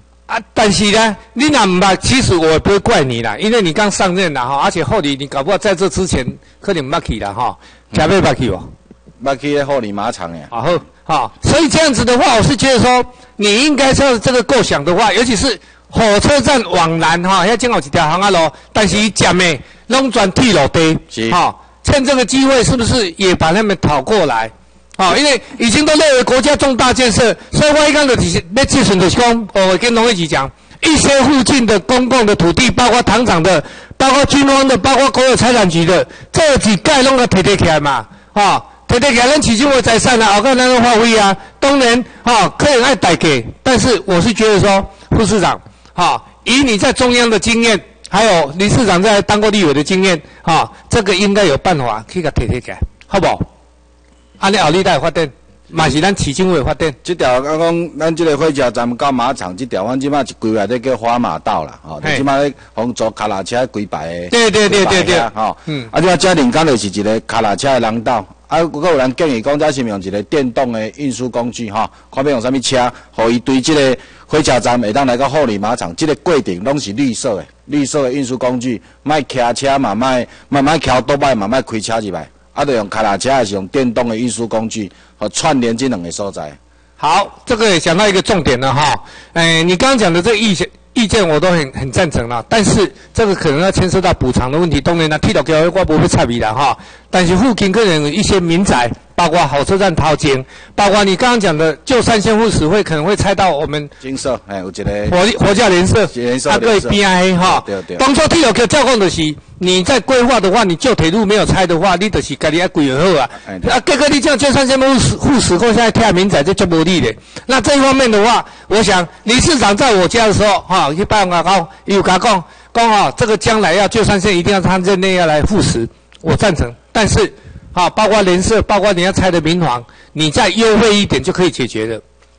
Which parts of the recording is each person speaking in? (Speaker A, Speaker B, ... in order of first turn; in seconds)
Speaker A: 0.3-8.7, 10.5-53.5, 54.4-57.0, 64.3-65.9, 87.0-103.9, 105.1-132.0
Speaker B: 9.2-10.5, 21.1-21.4, 57.0-86.6, 104.0-105.2, 106.1-108.0, 113.4-113.8